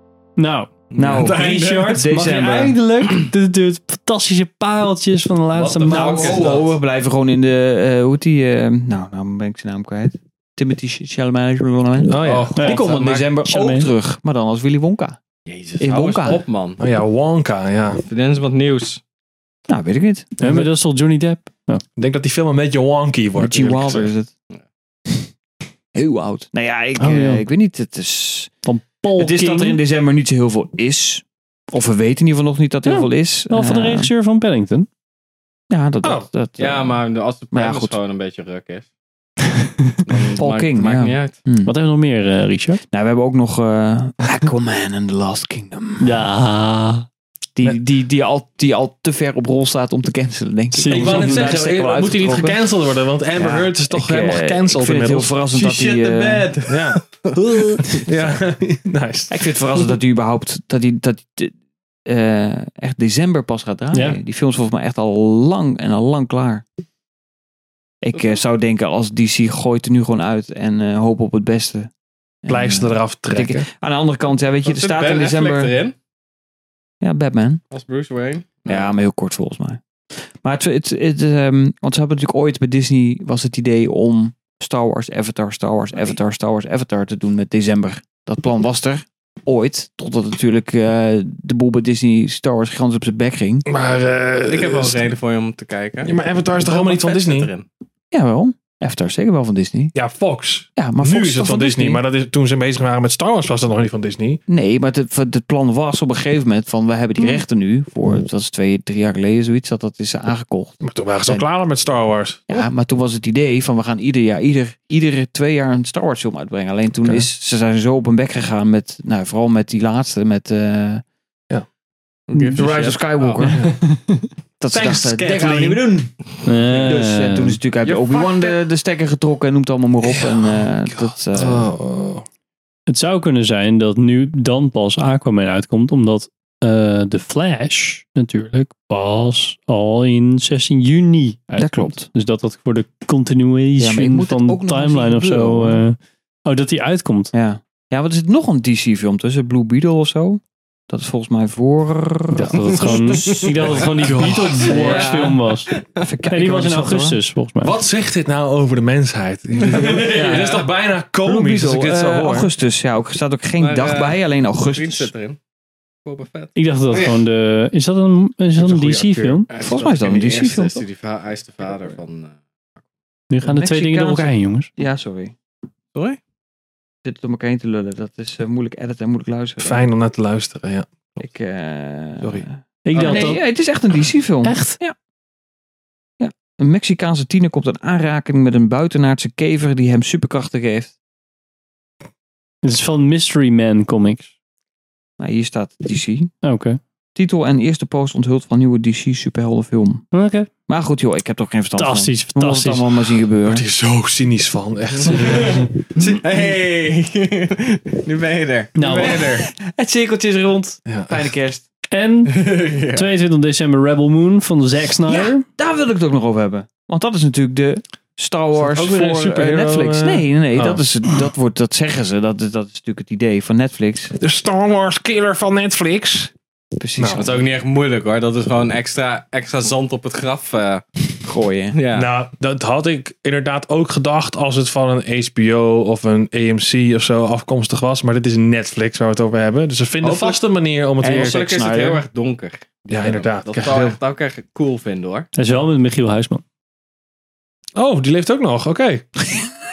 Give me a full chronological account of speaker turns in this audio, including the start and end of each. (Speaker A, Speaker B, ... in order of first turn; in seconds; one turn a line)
Speaker A: 0.4-6.5
Speaker B: 0.9-2.0
Speaker C: 0.9-2.8
Speaker B: 5.6-6.7
Speaker C: 5.9-15.2
Speaker D: 12.1-12.8
Speaker B: 12.2-13.3
Speaker A: 12.6-13.9
Speaker B: 15.5-16.8
Speaker C: 15.8-16.4
Speaker D: 16.8-18.0
Speaker B: 18.1-19.0
Speaker C: 19.7-20.4
Speaker A: 20.4-21.8
Speaker D: 22.0-24.1
Speaker C: 23.4-24.3
Speaker C: 25.9-28.6
Speaker A: 27.0-27.4
Speaker A: 28.6-29.8
Speaker C: 29.1-34.1
Speaker A: 32.9-34.9
Speaker C: 35.7-38.0
Speaker B: 36.6-38.9
Speaker B: 40.0-41.4
Speaker C: 40.4-41.7
Speaker A: 41.6-42.8
Speaker C: 42.9-46.1
Speaker A: 46.0-47.1
Speaker C: 47.5-52.6
Speaker A: 50.7-51.5
Speaker D: 50.9-55.3
Speaker C: 53.3-56.5
Speaker B: 55.5-58.3
Speaker D: 56.7-57.0
Speaker D: 57.9-59.4
Speaker C: 59.3-61.5
Speaker C: 62.0-66.6
Speaker A: 63.9-64.2
Speaker C: 68.0-71.9
Speaker B: 68.1-68.4
Speaker C: 72.4-75.7
Speaker D: 72.5-73.7
Speaker B: 74.6-75.9
Speaker C: 77.0-77.6
Speaker B: 77.7-78.9
Speaker C: 78.7-93.7
Speaker D: 93.7-95.0
Speaker B: 94.5-97.7
Speaker D: 96.0-97.5
Speaker C: 98.1-99.9
Speaker D: 99.9-104.4
Speaker C: 100.8-102.0
Speaker C: 104.5-111.5
Speaker D: 110.8-112.7
Speaker C: 112.5-121.0
Speaker C: 122.3-126.2
Speaker B: 122.4-123.4
Speaker D: 122.5-123.7
Speaker D: 124.7-126.0
Speaker A: 126.4-127.6
Speaker C: 126.7-131.7
Speaker D: 127.8-128.6
Speaker D: 130.1-132.2
Speaker A: 132.9-147.3
Speaker C: 141.6-142.1
Speaker C: 143.8-145.8
Speaker C: 147.3-155.3
Speaker A: 152.3-155.7
Speaker D: 154.0-155.0
Speaker B: 154.1-156.1
Speaker C: 155.9-157.2
Speaker A: 156.3-157.7
Speaker D: 157.6-162.5
Speaker B: 159.6-160.5
Speaker C: 159.8-160.7
Speaker C: 161.2-165.1
Speaker B: 163.6-165.4
Speaker B: 166.0-167.1
Speaker A: 166.6-169.5
Speaker D: 168.6-169.4
Speaker B: 169.5-172.3
Speaker C: 169.6-170.8
Speaker A: 173.3-174.7
Speaker C: 173.4-175.3
Speaker C: 177.0-179.9
Speaker D: 179.6-181.2
Speaker C: 181.2-184.9
Speaker D: 182.2-182.4
Speaker A: 182.8-183.4
Speaker D: 183.0-183.3
Speaker A: 184.4-184.8
Speaker C: 186.2-190.9
Speaker A: 192.6-194.3
Speaker C: 195.2-196.3
Speaker A: 196.4-196.8
Speaker C: 197.2-200.0
Speaker A: 200.1-200.5
Speaker C: 200.7-203.6
Speaker A: 201.8-202.9
Speaker D: 203.4-205.8
Speaker B: 204.9-209.5
Speaker A: 208.8-209.2
Speaker C: 208.8-211.6
Speaker D: 210.9-211.2
Speaker A: 211.9-212.4
Speaker B: 212.3-213.1
Speaker A: 212.9-215.4
Speaker C: 215.1-224.1
Speaker D: 218.6-220.8
Speaker D: 224.2-226.3
Speaker C: 226.8-227.3
Speaker D: 227.0-227.3
Speaker B: 227.2-230.8
Speaker C: 231.2-231.8
Speaker B: 231.7-232.1
Speaker D: 231.9-241.4
Speaker B: 240.0-240.4
Speaker C: 241.0-242.0
Speaker B: 241.0-245.3
Speaker D: 242.9-243.9
Speaker A: 245.3-246.4
Speaker D: 247.7-249.1